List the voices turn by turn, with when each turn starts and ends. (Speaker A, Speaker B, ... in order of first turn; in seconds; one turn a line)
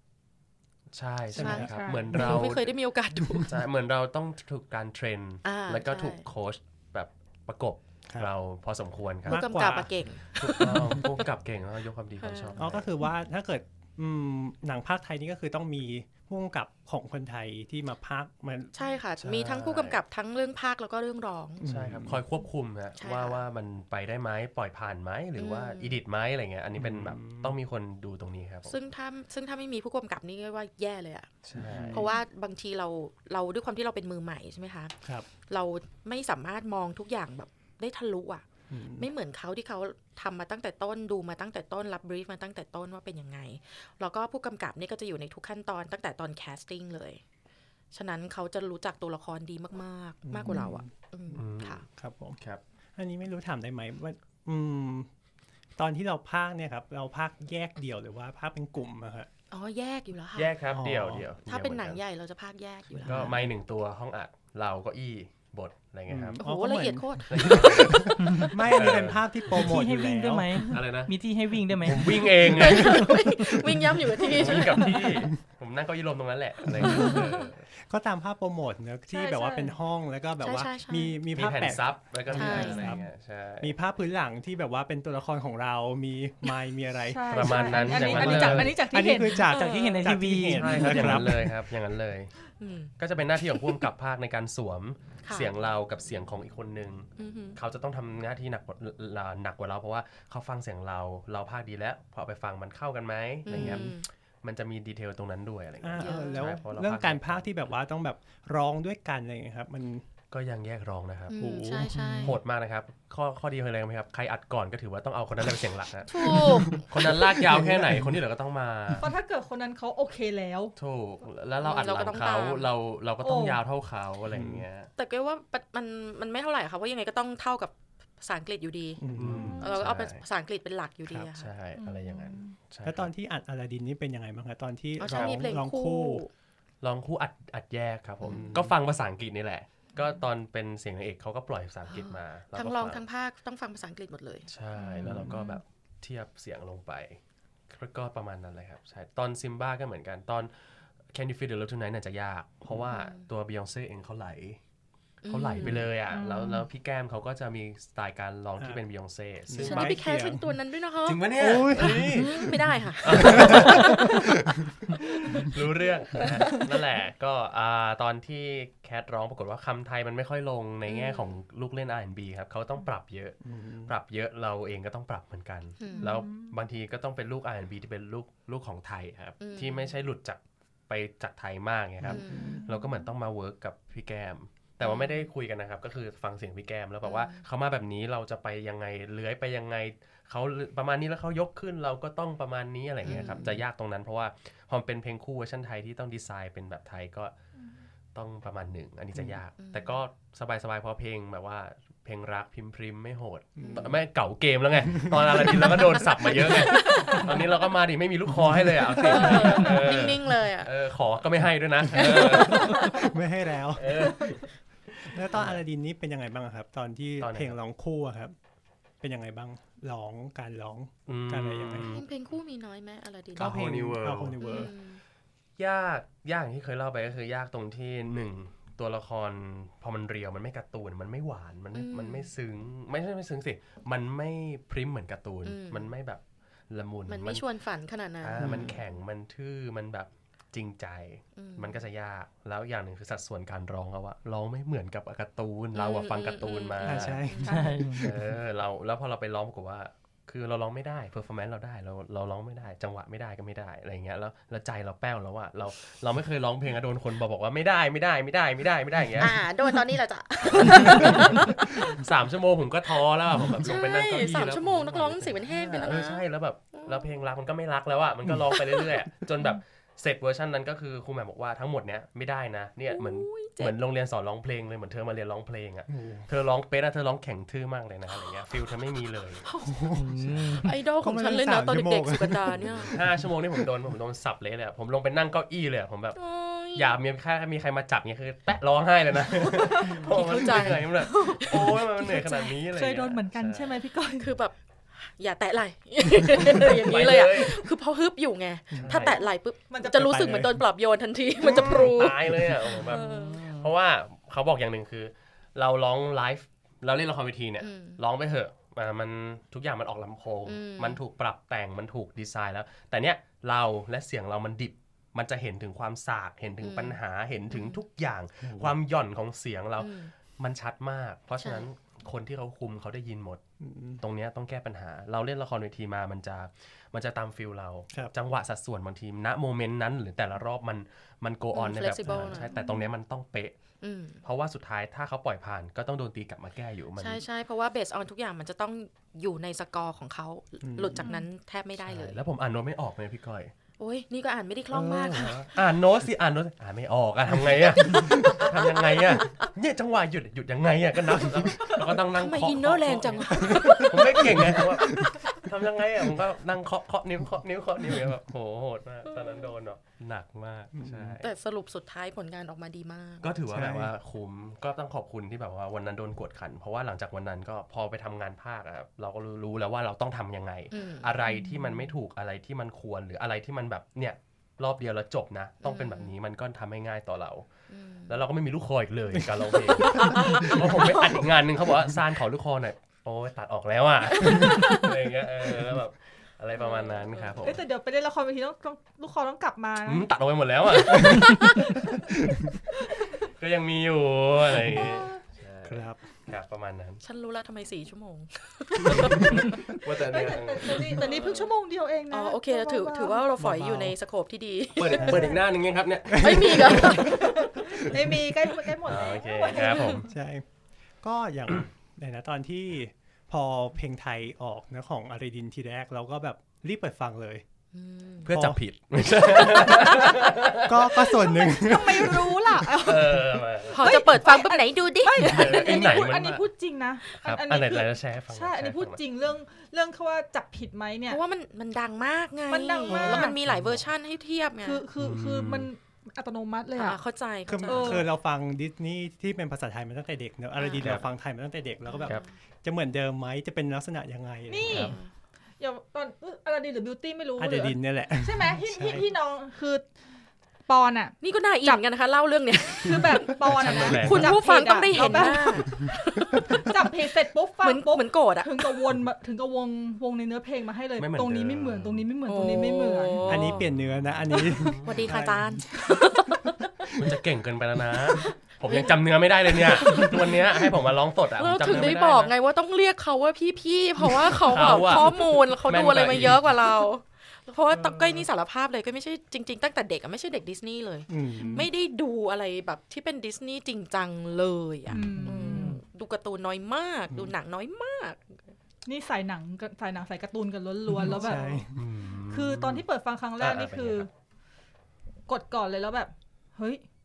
Speaker A: 0.9-2.7
Speaker B: 1.3-2.4
Speaker C: 1.4-3.5
Speaker D: 1.6-2.2
Speaker A: 3.4-9.4
Speaker C: 5.4-6.2
Speaker B: 9.2-11.1
Speaker C: 9.3-11.0
Speaker A: 10.3-12.9
Speaker C: 12.2-12.6
Speaker B: 12.6-18.8
Speaker C: 18.7-21.7
Speaker A: 19.2-20.0
Speaker B: 21.6-22.2
Speaker A: 21.6-28.7
Speaker C: 23.0-23.4
Speaker C: 25.4-26.0
Speaker B: 26.7-27.6
Speaker C: 28.7-31.3
Speaker A: 31.4-32.1
Speaker B: 31.5-32.1
Speaker C: 31.9-34.9
Speaker C: 35.5-38.4
Speaker B: 38.7-39.1
Speaker C: 39.0-47.2
Speaker C: 47.9-51.8
Speaker B: 50.2-50.9
Speaker A: 51.4-51.8
Speaker B: 51.9-52.4
Speaker B: 53.0-55.1
Speaker B: 55.8-59.3
Speaker C: 59.5-60.5
Speaker A: 60.3-62.0
Speaker B: 60.7-61.2
Speaker C: 61.5-63.4
Speaker B: 63.0-63.4
Speaker A: 63.0-66.4
Speaker B: 66.1-70.6
Speaker C: 66.4-67.9
Speaker A: 67.3-69.2
Speaker E: 68.2-68.5
Speaker E: 69.5-72.1
Speaker A: 70.7-71.1
Speaker A: 71.8-73.2
Speaker C: 72.4-75.2
Speaker B: 74.2-75.1
Speaker A: 74.3-77.6
Speaker B: 76.7-77.2
Speaker C: 76.8-77.3
Speaker D: 76.9-77.2
Speaker B: 77.7-83.1
Speaker D: 79.1-79.8
Speaker C: 80.4-81.2
Speaker A: 81.3-83.7
Speaker C: 82.3-83.0
Speaker B: 83.6-91.5
Speaker D: 87.0-89.5
Speaker A: 87.3-88.8
Speaker C: 89.4-90.1
Speaker E: 89.6-91.4
Speaker A: 90.5-92.3
Speaker C: 92.6-92.9
Speaker A: 93.0-107.5
Speaker C: 95.2-95.5
Speaker C: 97.2-97.6
Speaker C: 103.5-104.1
Speaker B: 103.5-103.9
Speaker B: 105.8-110.1
Speaker C: 106.0-106.5
Speaker A: 110.3-111.3
Speaker C: 111.3-112.4
Speaker B: 111.3-112.4
Speaker E: 112.0-112.3
Speaker A: 112.2-119.0
Speaker C: 116.1-116.8
Speaker B: 116.2-118.2
Speaker D: 119.0-120.8
Speaker A: 120.8-124.9
Speaker C: 121.6-122.7
Speaker D: 123.2-123.6
Speaker B: 124.3-124.7
Speaker C: 125.0-129.0
Speaker B: 129.0-129.6
Speaker A: 129.1-130.2
Speaker D: 129.4-129.7
Speaker C: 129.6-131.5
Speaker B: 131.1-131.3
Speaker A: 131.3-133.1
Speaker D: 131.8-132.6
Speaker B: 132.8-136.2
Speaker C: 135.0-136.3
Speaker A: 135.1-135.5
Speaker A: 136.8-143.0
Speaker C: 138.2-138.5
Speaker B: 138.2-138.7
Speaker C: 141.9-145.6
Speaker A: 144.5-150.5
Speaker B: 145.0-145.3
Speaker A: 151.1-154.6
Speaker C: 152.8-153.3
Speaker C: 155.2-155.9
Speaker A: 155.3-160.0
Speaker B: 155.6-155.9
Speaker D: 156.1-156.7
Speaker B: 159.5-160.5
Speaker C: 159.6-164.2
Speaker A: 161.0-197.3
Speaker B: 161.3-162.5
Speaker B: 163.1-164.5
Speaker D: 166.1-166.6
Speaker C: 170.9-171.3
Speaker B: 173.4-173.9
Speaker C: 175.8-176.2
Speaker D: 175.9-176.6
Speaker C: 179.4-179.9
Speaker B: 182.0-182.7
Speaker C: 182.1-182.7
Speaker D: 182.4-182.7
Speaker C: 184.8-185.3
Speaker C: 187.0-187.4
Speaker C: 193.0-193.4
Speaker B: 193.1-193.6
Speaker A: 198.1-213.0
Speaker C: 199.6-200.0
Speaker B: 203.6-203.9
Speaker C: 203.6-204.0
Speaker B: 205.0-206.3
Speaker C: 206.5-207.5
Speaker C: 209.0-210.7
Speaker B: 209.2-209.6
Speaker B: 211.9-214.4
Speaker C: 211.9-213.1
Speaker A: 213.8-214.5
Speaker A: 215.0-215.6
Speaker B: 215.0-218.3
Speaker A: 217.2-217.5
Speaker B: 219.0-222.0
Speaker A: 221.1-222.1
Speaker C: 221.7-223.6
Speaker A: 223.3-224.4
Speaker B: 223.3-224.7
Speaker C: 224.4-225.0
Speaker A: 225.6-237.4
Speaker C: 231.7-232.3
Speaker C: 235.4-235.9
Speaker C: 237.1-238.7
Speaker A: 238.2-247.2
Speaker B: 238.4-238.8
Speaker C: 241.3-241.8
Speaker C: 245.7-247.7
Speaker B: 246.8-248.4
Speaker D: 247.5-247.8
Speaker E: 247.5-248.1
Speaker A: 248.0-259.4
Speaker C: 259.2-262.0
Speaker A: 260.5-279.4
Speaker C: 263.5-267.1
Speaker C: 268.5-268.9
Speaker C: 272.9-273.7
Speaker B: 275.9-276.3
Speaker C: 278.1-278.4
Speaker C: 279.4-279.9
Speaker B: 279.6-283.7
Speaker E: 279.9-280.7
Speaker C: 280.6-283.0
Speaker A: 282.8-286.2
Speaker C: 286.1-287.0
Speaker A: 286.7-293.8
Speaker C: 289.6-292.4
Speaker D: 291.6-294.3
Speaker C: 294.2-302.2
Speaker A: 296.5-297.6
Speaker B: 298.7-299.1
Speaker A: 298.8-299.2
Speaker D: 299.1-300.5
Speaker B: 300.0-300.6
Speaker B: 301.4-302.8
Speaker A: 301.4-323.4
Speaker C: 302.7-303.5
Speaker C: 307.6-308.0
Speaker C: 310.4-311.0
Speaker C: 316.6-317.0
Speaker C: 317.5-317.8
Speaker B: 318.4-318.7
Speaker C: 319.8-320.1
Speaker C: 321.4-321.7
Speaker B: 323.6-324.0
Speaker A: 324.0-333.6
Speaker C: 331.5-332.9
Speaker B: 332.1-332.4
Speaker D: 332.5-332.8
Speaker C: 333.8-334.2
Speaker A: 334.2-337.2
Speaker C: 337.0-342.2
Speaker B: 340.6-341.1
Speaker A: 341.8-343.5
Speaker C: 343.8-345.4
Speaker A: 344.8-361.3
Speaker B: 345.0-345.3
Speaker C: 347.8-349.5
Speaker C: 352.1-355.4
Speaker B: 353.4-355.1
Speaker C: 359.1-359.5
Speaker B: 360.7-361.2
Speaker C: 361.2-363.3
Speaker A: 363.2-377.4
Speaker B: 363.5-363.9
Speaker C: 370.7-371.9
Speaker C: 375.6-376.1
Speaker C: 377.7-378.1
Speaker A: 378.1-387.6
Speaker B: 379.1-380.6
Speaker C: 379.7-381.3
Speaker C: 384.1-384.9
Speaker C: 386.5-387.4
Speaker D: 387.4-390.1
Speaker A: 389.8-391.8
Speaker C: 390.8-391.8
Speaker B: 392.0-392.5
Speaker A: 393.2-397.0
Speaker B: 394.6-394.9
Speaker D: 394.7-395.2
Speaker B: 395.6-396.0
Speaker C: 397.0-399.5
Speaker A: 398.8-401.2
Speaker D: 399.9-403.2
Speaker C: 400.7-401.5
Speaker C: 402.1-405.4
Speaker B: 403.4-403.9
Speaker A: 404.8-407.1
Speaker D: 404.9-405.4
Speaker B: 404.9-405.3
Speaker B: 406.1-408.6
Speaker C: 406.1-407.5
Speaker D: 407.0-410.0
Speaker A: 408.8-410.1
Speaker C: 409.0-410.0
Speaker B: 410.0-410.4
Speaker B: 411.0-417.4
Speaker C: 417.7-418.3
Speaker A: 418.2-421.1
Speaker B: 418.3-418.6
Speaker C: 419.4-420.1
Speaker B: 419.7-422.7
Speaker D: 421.1-431.2
Speaker A: 422.8-424.1
Speaker C: 423.7-425.8
Speaker A: 425.2-426.5
Speaker A: 427.2-429.0
Speaker C: 431.1-434.9
Speaker D: 432.5-433.4
Speaker B: 432.9-433.4
Speaker A: 433.5-433.8
Speaker D: 434.6-437.0
Speaker A: 435.0-435.7
Speaker C: 436.8-438.1
Speaker B: 437.5-445.0
Speaker D: 437.7-438.1
Speaker C: 440.6-441.0
Speaker A: 440.8-441.0
Speaker C: 441.9-442.3
Speaker D: 444.5-445.0
Speaker C: 444.7-445.1
Speaker D: 445.6-449.9
Speaker B: 447.4-449.1
Speaker D: 450.7-451.8
Speaker C: 451.2-456.6
Speaker D: 452.8-463.2
Speaker A: 453.5-454.4
Speaker C: 457.6-458.9
Speaker A: 461.0-462.1
Speaker C: 462.2-463.6
Speaker B: 463.2-465.9
Speaker A: 463.6-465.1
Speaker C: 464.8-466.6
Speaker B: 466.8-467.1
Speaker A: 466.9-472.3
Speaker C: 468.2-470.4
Speaker C: 471.4-488.5
Speaker A: 474.4-476.5
Speaker B: 477.7-478.2
Speaker B: 481.1-481.7
Speaker D: 481.4-481.7
Speaker D: 484.9-485.8
Speaker E: 485.0-485.8
Speaker D: 488.9-491.7
Speaker B: 490.9-491.9
Speaker A: 491.7-492.8
Speaker D: 492.3-494.1
Speaker A: 493.4-494.1
Speaker D: 495.3-496.8